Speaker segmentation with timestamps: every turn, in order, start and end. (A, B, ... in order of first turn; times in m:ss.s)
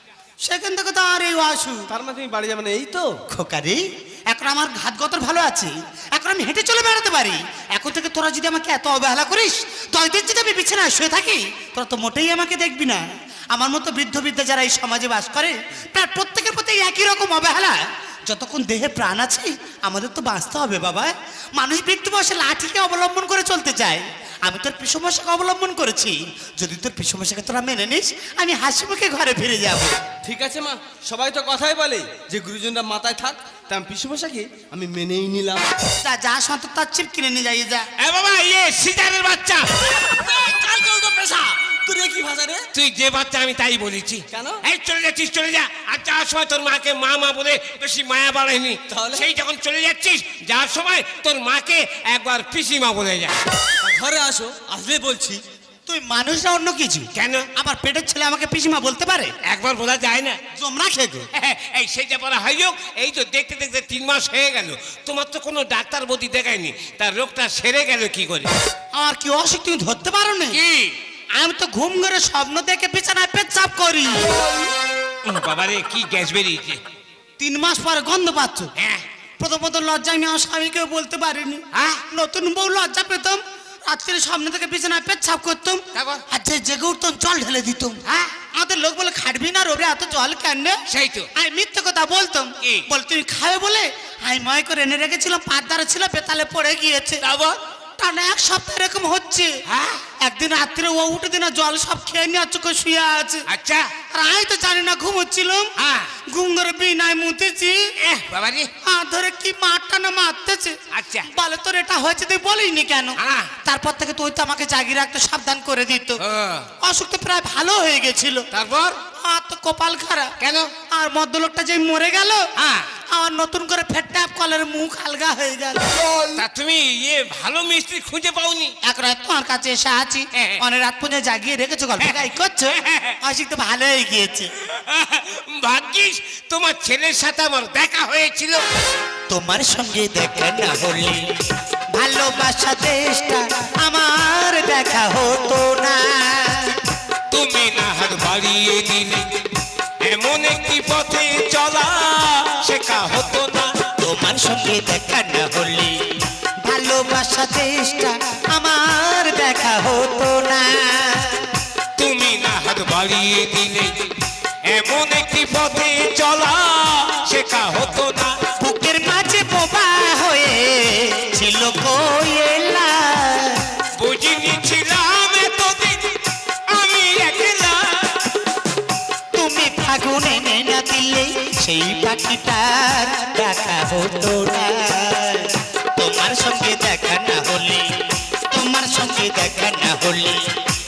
0:00.4-0:01.9 A
0:01.9-0:03.1 B
0:03.3-0:30.0 A
0:30.2-0:35.7 B
0:36.0-0:37.9 A
0:38.0-0:39.7 C
0:39.8-0:42.6 B
0:42.7-0:53.4 C
0:44.3-0:44.6 B
0:48.9-0:49.3 B
0:53.8-0:55.4 B
0:55.9-0:59.3 A
0:57.1-0:57.5 C
0:59.4-1:00.4 C
1:00.5-1:01.3 A
1:01.3-1:08.5 C
1:09.0-1:10.6 A
1:10.5-1:11.0 C
1:11.4-1:14.4 A
1:15.2-1:16.8 C
1:17.4-1:18.7 A
1:18.8-1:19.0 C
1:19.4-1:28.0 A
1:21.7-1:22.0 C
1:25.9-1:26.2 C
1:28.0-1:28.3 C
1:28.5-1:30.8 A
1:30.9-1:31.3 C
1:31.4-1:37.2 A
1:37.2-1:37.6 C
1:38.0-1:39.6 A
1:39.7-1:40.0 C
1:40.2-1:43.4 A
1:43.5-1:43.9 C
1:44.1-1:45.7 A
1:45.8-1:46.1 C
1:46.3-1:47.9 A
1:48.0-1:48.7 C
1:48.8-1:50.8 A
1:50.9-1:51.3 C
1:51.3-1:56.2 A
1:53.2-1:53.5 C
1:56.2-1:56.7 C
1:56.8-1:58.5 A
1:58.5-1:59.0 C
1:59.2-2:02.5 A
2:00.4-2:00.7 C
2:02.6-2:02.9 C
2:03.1-2:06.1 A
2:06.4-2:08.7 C
2:08.8-2:14.5 A
2:10.3-2:10.6 C
2:12.8-2:13.2 C
2:14.7-2:18.6 C
2:19.3-2:21.3 A
2:21.9-2:26.8 A
2:27.3-2:29.4 C
2:30.0-2:33.7 C
2:34.0-2:41.5 A
2:42.0-2:44.1 C
2:44.6-2:48.5 C
2:48.6-2:53.8 A
2:54.0-2:58.4 C
2:59.4-3:08.0 A
3:08.5-3:10.6 A